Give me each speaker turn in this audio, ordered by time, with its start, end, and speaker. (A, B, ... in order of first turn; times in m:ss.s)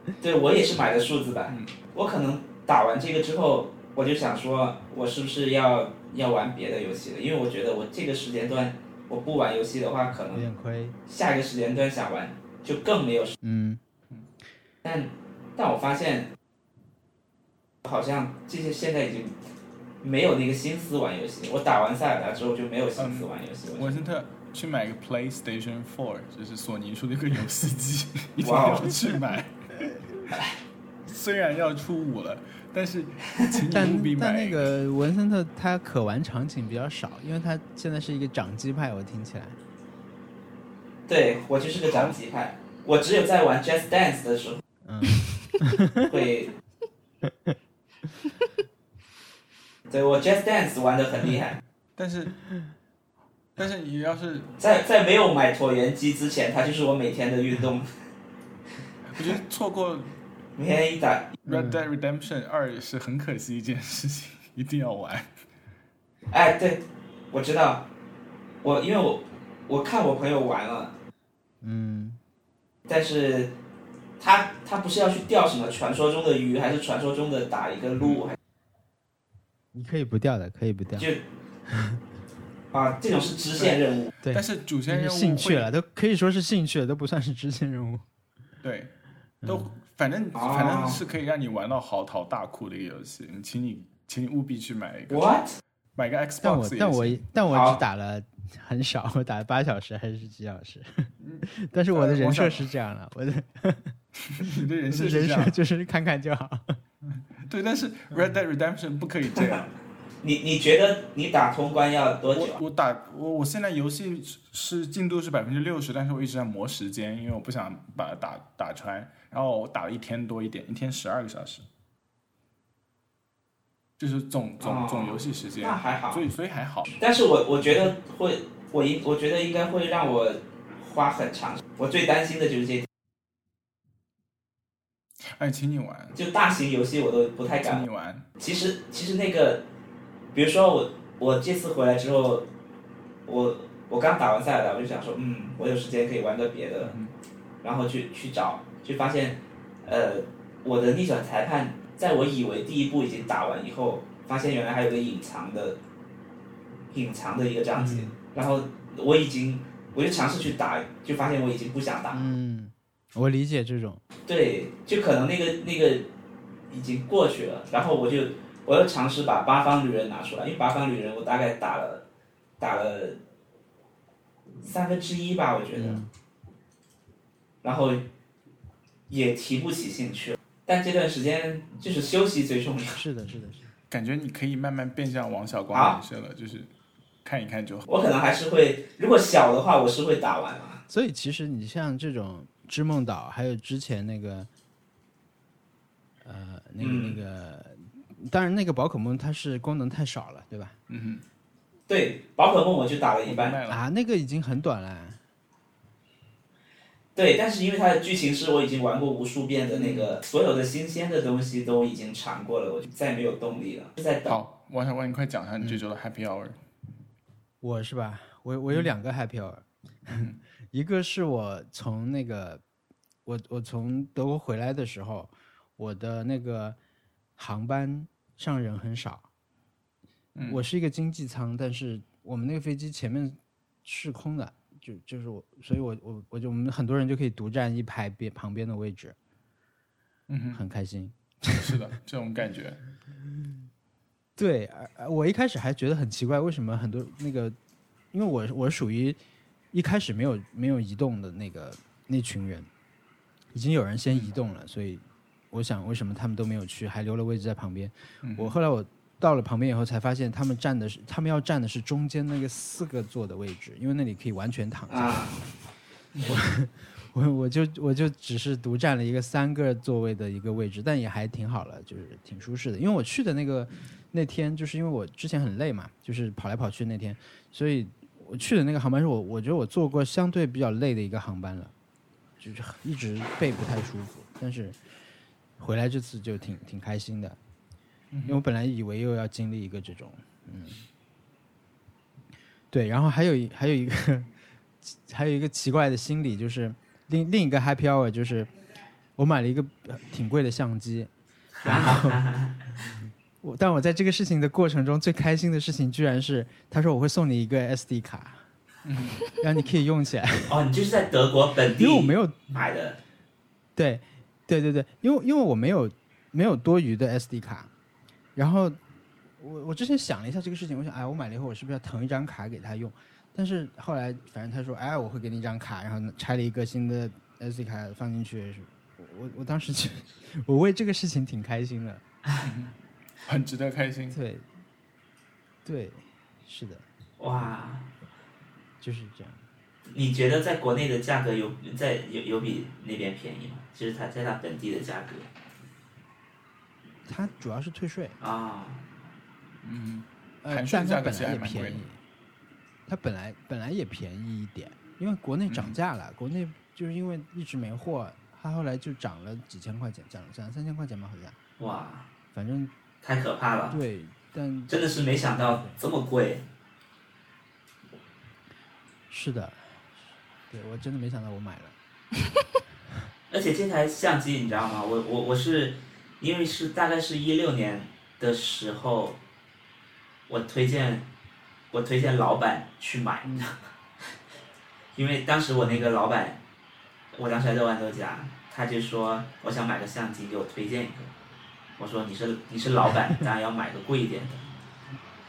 0:00.2-0:10.4 A
0:10.3-0:11.0 B
0:11.1-0:13.3 A
0:13.4-0:13.8 B
0:14.8-0:16.3 A
0:17.8-0:19.4 A
0:20.0-0:24.0 A
0:23.0-0:30.1 C
0:28.4-0:28.9 A
0:31.1-0:34.7 C
0:33.7-0:39.6 B
0:41.1-0:44.6 A
0:41.9-0:42.1 C
0:44.8-0:46.1 B
0:46.0-0:46.5 A
0:47.2-0:47.5 B
0:49.9-0:51.6 A
0:52.0-0:52.4 C
0:53.6-0:54.5 C
0:54.6-0:57.9 A
0:59.1-1:00.1 C
1:00.6-1:01.3 A
1:01.4-1:05.3 C
1:01.4-1:01.8 B
1:06.3-1:07.8 A
1:08.6-1:10.9 A
1:11.6-1:12.2 B
1:12.9-1:13.5 A
1:14.2-1:18.4 A
1:19.7-1:21.1 B
1:21.0-1:21.2 A
1:21.7-1:22.0 B
1:22.7-1:24.1 A
1:24.2-1:28.0 B
1:24.3-1:25.7 C
1:28.6-1:28.9 C
1:29.4-1:35.3 C
1:30.3-1:31.0 A
1:35.1-1:35.6 A
1:36.0-1:37.2 C
1:36.4-1:46.8 B
1:37.5-1:37.8 A
1:41.2-1:42.7 C
1:44.2-1:45.6 C
1:47.4-1:49.7 C
1:50.2-1:52.6 A
1:52.3-2:01.6 C
2:04.0-2:06.9 C
2:04.6-2:06.2 A
2:07.0-2:12.9 A
2:15.3-2:16.2 C
2:16.1-2:17.8 A
2:17.6-2:18.2 C
2:18.4-2:19.6 A
2:20.3-2:22.5 A
2:23.2-2:26.9 A
2:26.8-2:27.1 C
2:27.6-2:35.8 A
2:36.9-2:42.3 A
2:37.8-2:38.1 B
2:42.1-2:44.0 B
2:44.2-2:46.1 A
2:46.7-2:52.0 A
2:52.6-2:53.2 A
2:54.6-2:56.0 A
2:55.8-2:56.1 B
2:57.6-2:58.0 A
2:59.1-3:03.0 A
3:02.9-3:03.7 B
3:03.9-3:06.7 C
3:05.7-3:06.0 A
3:07.2-3:07.9 C
3:07.9-3:10.8 A
3:10.9-3:14.5 B
3:16.2-3:20.8 B
3:16.8-3:17.2 A
3:20.9-3:21.2 C
3:21.9-3:23.6 A
3:23.2-3:23.8 C
3:23.7-3:25.2 B
3:27.2-3:34.3 A
3:29.7-3:30.1 B
3:34.2-3:36.6 C
3:37.6-3:42.6 B
3:43.2-3:46.8 B
3:47.4-3:49.3 B
3:50.4-3:50.6 C
3:50.5-3:59.2 B
4:00.3-4:00.6 C
4:00.5-4:01.8 B
4:01.5-4:02.8 C
4:04.4-4:07.6 B
4:08.1-4:09.2 B
4:09.7-4:12.7 B
4:13.5-4:25.4 B
4:18.2-4:18.5 C
4:24.9-4:25.3 A
4:26.2-4:41.7 B
4:42.4-4:44.8 B
4:45.6-4:47.4 B
4:48.1-4:48.4 C
4:48.2-4:50.8 B
4:52.7-4:54.3 B
4:54.8-4:58.5 B
4:59.2-5:01.1 B
5:01.6-5:02.6 A
5:01.6-5:02.2 B
5:02.8-5:08.4 B
5:08.8-5:09.2 C
5:09.4-5:10.6 B
5:10.5-5:13.0 A
5:11.8-5:12.5 B
5:13.8-5:17.7 B
5:18.4-5:18.8 B
5:19.4-5:32.0 B
5:32.4-5:32.7 C
5:33.2-5:34.2 C
5:34.1-5:34.5 B
5:35.6-5:36.8 B
5:37.2-5:37.9 A
5:38.8-5:39.4 B
5:39.9-5:45.3 A
5:47.1-5:48.2 B
5:48.2-5:48.8 A
5:49.6-5:51.8 C
5:50.4-5:52.0 B
5:52.9-6:01.4 B
5:55.5-5:55.7 C
6:01.6-6:02.1 A
6:02.3-6:02.7 B
6:03.0-6:03.8 A
6:03.7-6:04.8 B
6:04.7-6:06.4 A
6:05.3-6:05.8 B
6:09.1-6:11.8 B
6:13.3-6:19.2 A
6:20.3-6:21.0 A
6:21.7-6:23.6 A
6:23.2-6:23.5 B
6:25.0-6:26.4 A
6:27.1-6:31.1 A
6:31.8-6:34.4 A